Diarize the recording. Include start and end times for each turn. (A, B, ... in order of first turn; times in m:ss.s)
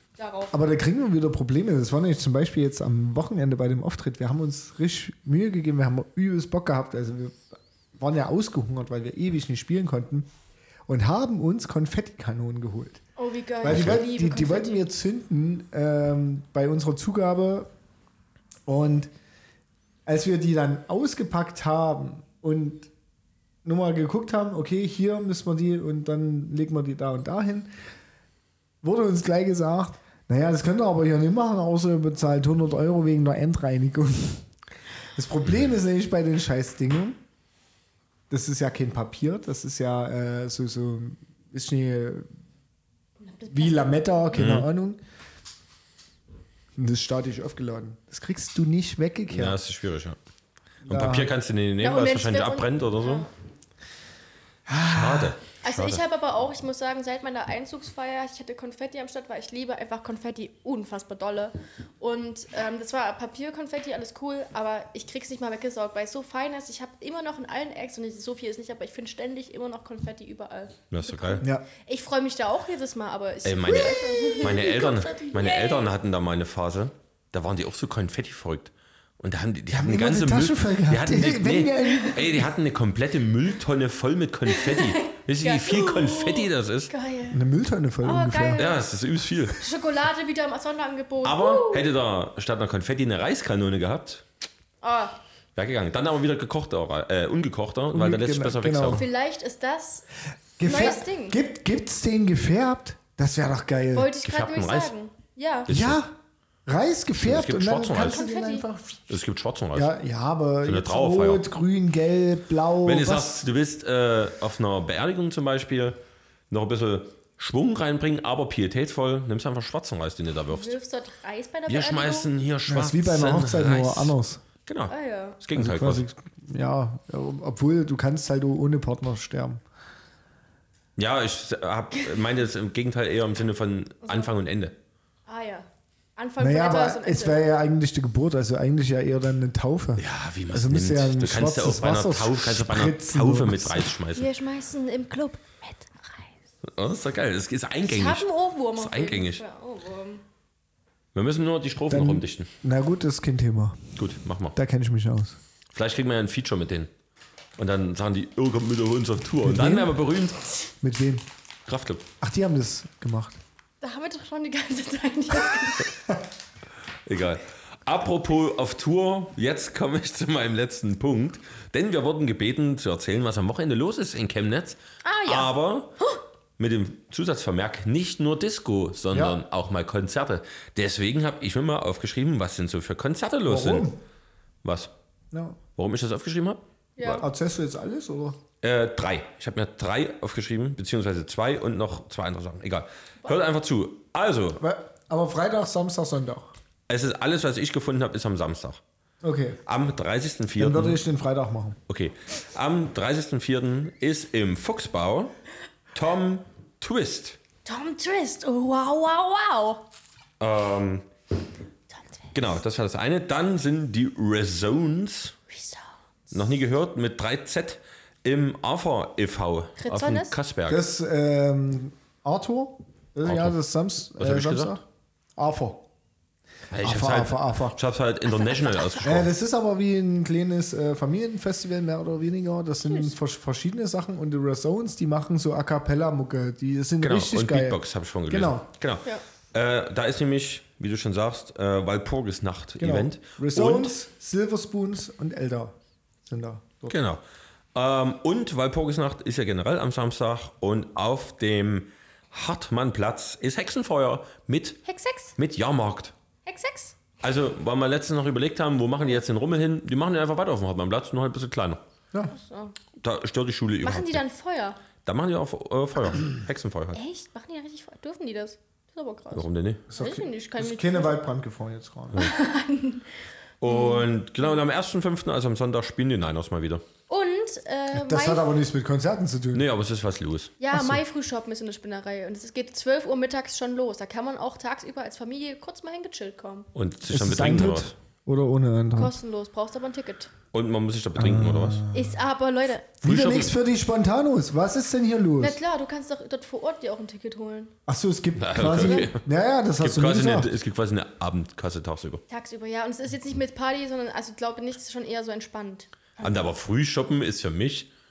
0:00.2-0:00.6 A
0:00.5-0:10.3 B
0:10.9-0:13.0 B
0:13.2-0:14.8 A
0:13.6-0:17.7 B
0:13.6-0:14.0 C
0:18.6-0:19.1 B
0:20.0-0:22.9 B
0:23.6-0:27.7 B
0:28.8-0:34.5 B
0:35.1-0:37.2 B
0:38.3-0:42.3 B
0:43.2-0:44.3 A
0:43.5-0:45.0 B
0:44.3-0:44.7 C
0:46.8-0:49.6 B
0:49.3-0:50.2 C
0:50.8-0:51.3 B
0:50.9-0:53.3 C
0:51.8-0:53.3 A
0:54.7-0:55.3 B
0:54.8-0:56.0 C
0:55.6-1:15.9 A
1:10.9-1:11.4 C
1:13.4-1:26.9 C
1:14.0-1:14.5 B
1:19.7-1:22.4 B
1:24.5-1:27.4 A
1:27.3-1:28.7 B
1:28.0-1:28.8 A
1:28.6-1:29.6 C
1:29.6-1:31.9 A
1:31.2-1:34.2 C
1:34.8-1:35.2 A
1:35.6-1:39.0 C
1:37.9-1:39.0 B
1:38.9-1:40.0 A
1:40.6-1:44.1 B
1:40.6-1:41.4 A
1:43.9-1:45.7 A
1:44.2-1:44.9 C
1:45.7-1:46.0 C
1:45.7-1:46.1 B
1:46.6-1:49.1 B
1:47.2-1:48.2 C
1:47.9-1:48.7 A
1:49.1-1:49.9 C
1:49.7-1:53.4 B
1:50.6-1:51.5 C
1:52.8-1:56.0 C
1:56.5-2:00.8 C
2:00.5-2:02.3 A
2:01.7-2:04.1 C
2:02.7-2:04.4 B
2:04.6-2:06.0 C
2:04.9-2:05.4 A
2:05.5-2:09.6 B
2:11.0-2:14.7 C
2:14.0-2:14.3 A
2:15.2-2:17.4 A
2:16.4-2:23.9 B
2:20.0-2:24.3 C
2:24.1-2:26.3 A
2:26.6-2:29.4 C
2:27.8-2:30.2 A
2:31.1-2:32.5 C
2:31.9-2:33.9 B
2:34.0-2:34.6 C
2:34.5-2:35.4 B
2:35.7-2:36.9 C
2:37.6-2:40.4 C
2:39.4-2:39.9 B
2:40.8-2:41.2 B
2:41.6-2:42.0 C
2:42.2-2:43.4 B
2:43.8-2:45.9 A
2:47.0-2:55.9 C
2:55.0-2:56.2 A
2:56.6-3:03.9 C
2:59.1-2:59.4 B
3:03.4-3:04.0 B
3:04.6-3:04.9 C
3:05.3-3:05.6 B
3:05.8-3:06.6 C
3:07.0-3:07.2 A
3:07.0-3:08.4 B
3:08.6-3:14.6 C
3:14.6-3:16.5 B
3:16.9-3:18.8 C
3:19.2-3:19.6 B
3:19.6-3:21.0 C
3:20.6-3:21.8 B
3:21.9-3:25.3 C
3:25.9-3:27.4 C
3:27.6-3:29.8 A
3:30.4-3:31.1 C
3:31.9-3:32.3 A
3:32.3-3:35.4 C
3:35.5-3:35.9 A
3:36.3-3:40.8 C
3:39.8-3:40.4 A
3:40.7-3:44.8 B
3:43.2-3:43.6 C
3:44.2-3:44.8 C
3:45.4-3:45.8 B
3:46.7-3:49.3 C
3:46.8-3:47.8 B
3:48.4-3:49.0 A
3:49.0-3:58.7 B
3:57.0-4:03.9 C
4:02.8-4:05.7 B
4:06.2-4:07.0 B
4:06.9-4:07.2 C
4:07.7-4:14.8 C
4:14.8-4:15.3 A
4:15.4-4:16.1 C
4:16.4-4:17.0 A
4:17.2-4:21.8 C
4:22.3-4:22.7 A
4:23.0-4:24.2 C
4:23.8-4:24.8 A
4:25.0-4:27.0 C
4:26.9-4:31.1 A
4:29.3-4:29.8 C
4:29.9-4:32.3 B
4:32.2-4:33.1 A
4:33.6-4:36.8 C
4:33.6-4:34.5 A
4:37.1-4:38.5 A
4:37.9-4:39.6 B
4:39.5-4:40.5 C
4:40.6-4:46.7 A
4:40.7-4:41.0 B
4:46.7-4:47.9 C
4:47.1-4:49.2 B
4:48.9-4:50.3 A
4:50.5-4:51.8 C
4:51.2-4:52.2 B
4:51.9-4:52.9 A
4:53.0-4:53.5 C
4:53.0-4:55.6 B
4:55.4-4:57.7 A
4:57.9-5:00.5 B
4:58.4-4:59.2 C
4:58.7-4:59.1 A
4:59.8-5:02.2 C
5:02.3-5:06.5 A
5:06.2-5:07.9 C